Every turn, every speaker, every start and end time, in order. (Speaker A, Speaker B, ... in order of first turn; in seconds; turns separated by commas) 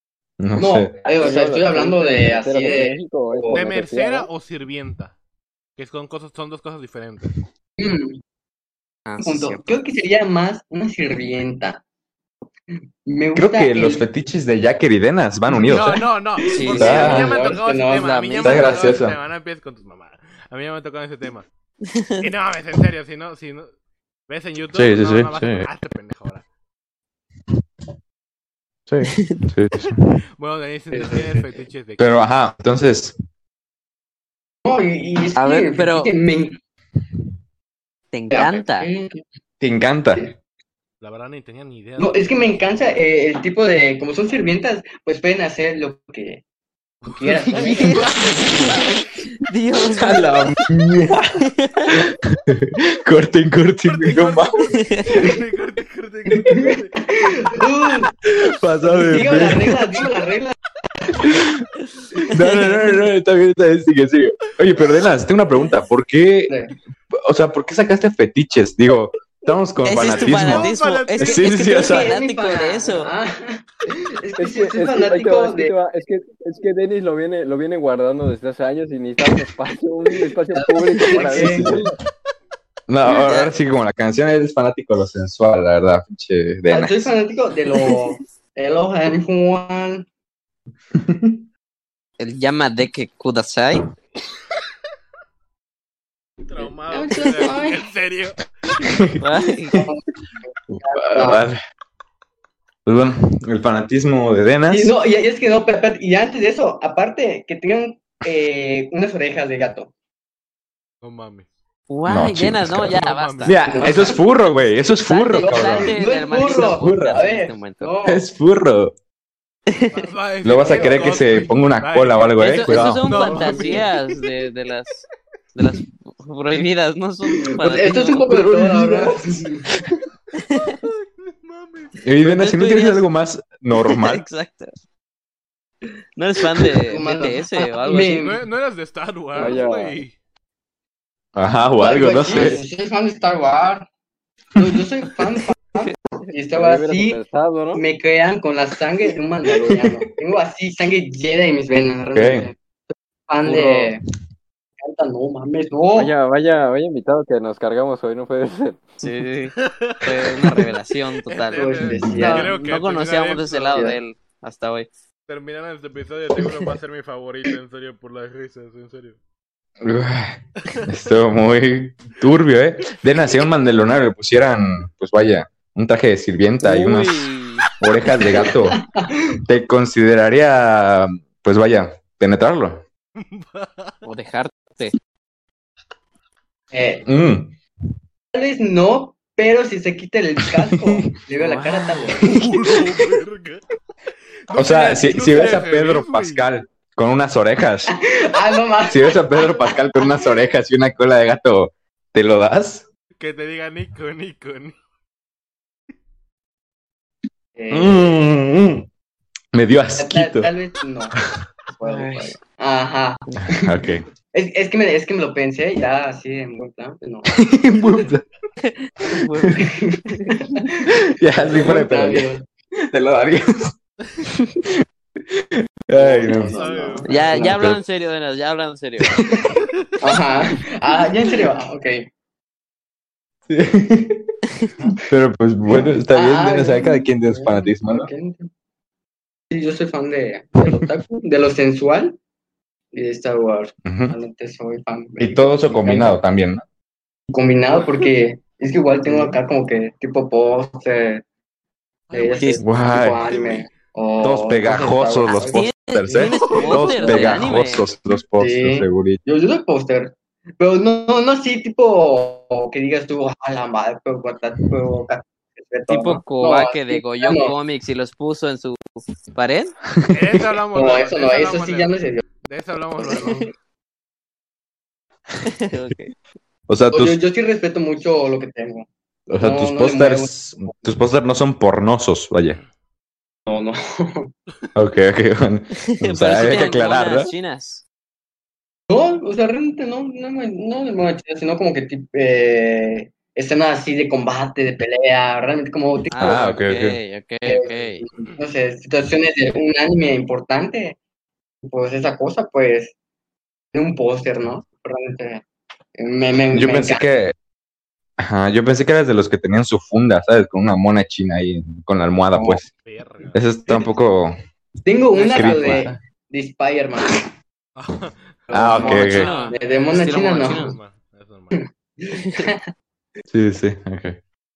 Speaker A: 0.4-1.0, Speaker B: 0.6-3.7, Speaker C: 1.1-4.3, Speaker D: 3.5-5.2, Speaker D: 5.8-7.4, Speaker B: 7.8-8.2, Speaker E: 9.1-9.8, Speaker B: 9.2-11.8, Speaker B: 13.0-14.0, Speaker A: 13.3-16.0, Speaker D: 15.5-21.5, Speaker B: 16.5-19.0, Speaker E: 16.5-18.9, Speaker A: 16.7-17.4, Speaker A: 18.4-19.2, Speaker E: 21.9-22.3, Speaker D: 22.2-23.7, Speaker D: 24.3-26.4, Speaker A: 24.7-25.7, Speaker A: 28.9-30.1, Speaker E: 29.1-29.4, Speaker D: 30.4-32.0, Speaker B: 30.9-31.5, Speaker A: 32.0-33.1, Speaker B: 34.6-36.6, Speaker E: 35.3-36.1, Speaker E: 38.1-38.9, Speaker B: 38.3-39.2, Speaker A: 39.6-40.2, Speaker D: 41.0-43.0, Speaker B: 42.0-46.4, Speaker D: 47.0-48.9, Speaker B: 47.0-49.0, Speaker E: 47.8-48.1, Speaker E: 49.3-50.7, Speaker A: 49.8-54.7, Speaker E: 51.4-52.0, Speaker D: 53.9-57.6, Speaker E: 54.8-55.1, Speaker B: 55.1-55.4, Speaker B: 56.3-58.1, Speaker A: 58.2-60.1, Speaker B: 58.8-60.5, Speaker A: 61.1-61.6, Speaker A: 62.2-66.5, Speaker E: 62.3-62.9, Speaker B: 66.5-66.7, Speaker A: 67.1-72.1, Speaker E: 69.8-73.1, Speaker D: 69.9-71.6, Speaker B: 71.7-75.7, Speaker C: 74.4-82.0, Speaker B: 80.5-81.8, Speaker A: 81.3-81.8, Speaker A: 82.9-87.2, Speaker E: 83.1-83.5, Speaker B: 86.7-90.1, Speaker A: 90.9-91.4, Speaker E: 92.2-93.9, Speaker D: 96.4-98.5, Speaker B: 96.9-97.8, Speaker A: 98.8-99.9, Speaker E: 99.2-99.8, Speaker B: 99.7-101.4, Speaker A: 100.7-101.6, Speaker A: 102.8-104.9, Speaker B: 104.7-109.9, Speaker D: 111.0-111.5, Speaker E: 111.9-113.6, Speaker A: 112.1-117.2, Speaker D: 112.8-114.3, Speaker B: 113.7-114.2, Speaker E: 115.0-117.9, Speaker B: 115.4-118.2, Speaker A: 118.0-118.9, Speaker E: 119.7-120.0, Speaker D: 119.9-124.1, Speaker A: 120.4-123.1, Speaker E: 122.4-125.0, Speaker B: 123.2-123.8, Speaker E: 125.5-128.3, Speaker B: 127.6-129.7, Speaker A: 128.2-130.0, Speaker E: 130.4-130.8, Speaker D: 130.8-131.9, Speaker A: 132.0-134.2, Speaker E: 132.2-133.0, Speaker E: 133.9-134.7, Speaker E: 136.2-138.2, Speaker B: 136.8-138.4, Speaker D: 138.0-140.1, Speaker C: 139.4-140.0, Speaker A: 141.3-142.6, Speaker B: 141.8-143.9, Speaker B: 144.6-147.2, Speaker C: 146.5-147.8, Speaker B: 147.7-152.5, Speaker A: 149.6-150.0, Speaker A: 152.1-152.5, Speaker B: 153.3-154.0, Speaker C: 153.4-153.9, Speaker B: 154.8-156.2, Speaker C: 155.9-158.9, Speaker E: 159.0-164.9, Speaker D: 159.6-160.7, Speaker D: 161.2-163.9, Speaker B: 161.6-162.6, Speaker A: 162.0-162.4, Speaker B: 163.7-164.0, Speaker D: 165.3-169.2, Speaker A: 169.8-178.8, Speaker E: 176.6-177.7, Speaker B: 178.3-179.2, Speaker A: 179.5-182.8, Speaker D: 183.2-183.9, Speaker E: 184.0-184.9, Speaker B: 186.7-187.1, Speaker A: 187.0-187.5, Speaker B: 188.3-192.4, Speaker A: 190.5-191.1, Speaker E: 191.3-192.3, Speaker A: 192.2-193.1, Speaker D: 192.3-193.6, Speaker D: 194.5-196.4, Speaker A: 194.5-197.9, Speaker B: 197.9-199.8, Speaker A: 198.9-202.8, Speaker D: 203.2-204.7, Speaker B: 207.6-208.2, Speaker A: 207.7-208.9, Speaker A: 209.5-210.5, Speaker B: 210.0-211.1, Speaker B: 211.7-213.8, Speaker E: 211.8-212.3, Speaker A: 213.4-214.1, Speaker B: 214.3-217.4, Speaker A: 217.3-218.2, Speaker E: 218.6-220.5, Speaker B: 219.5-222.4, Speaker A: 220.9-223.7, Speaker A: 224.3-224.7, Speaker A: 225.3-226.7, Speaker B: 225.9-227.6, Speaker D: 226.3-227.5, Speaker E: 227.1-229.2, Speaker A: 227.4-227.8, Speaker B: 229.4-232.0, Speaker A: 233.5-234.3, Speaker A: 235.1-238.1, Speaker B: 235.7-238.5, Speaker B: 239.5-242.2, Speaker B: 242.9-246.2, Speaker A: 243.8-244.2, Speaker A: 245.2-246.6, Speaker B: 247.3-251.2, Speaker A: 249.1-249.4, Speaker D: 252.1-253.7, Speaker B: 252.1-257.4, Speaker A: 252.6-253.2, Speaker A: 254.2-259.2, Speaker E: 255.3-257.9, Speaker B: 258.4-267.5, Speaker E: 265.9-269.7, Speaker A: 269.9-270.4, Speaker D: 270.1-273.5, Speaker B: 270.7-272.2, Speaker E: 275.6-276.1, Speaker A: 276.7-277.2, Speaker B: 276.9-278.9, Speaker A: 279.3-282.6, Speaker B: 279.4-280.7, Speaker B: 283.5-284.3, Speaker A: 284.7-287.3, Speaker E: 286.0-287.8, Speaker B: 288.9-296.4, Speaker E: 296.1-298.1, Speaker A: 296.2-297.0, Speaker B: 297.4-301.0, Speaker B: 301.6-302.9, Speaker B: 303.7-305.4, Speaker B: 306.0-307.0, Speaker A: 306.5-307.3, Speaker A: 308.2-312.7, Speaker B: 312.3-312.6, Speaker D: 312.8-313.9, Speaker A: 313.3-314.4, Speaker B: 314.8-317.3, Speaker A: 315.2-316.0, Speaker E: 315.3-315.6, Speaker D: 317.8-318.2, Speaker B: 318.5-320.7, Speaker A: 318.5-319.3, Speaker E: 318.8-320.8, Speaker D: 318.8-321.6, Speaker B: 321.5-322.7, Speaker E: 322.1-322.5, Speaker A: 323.3-324.2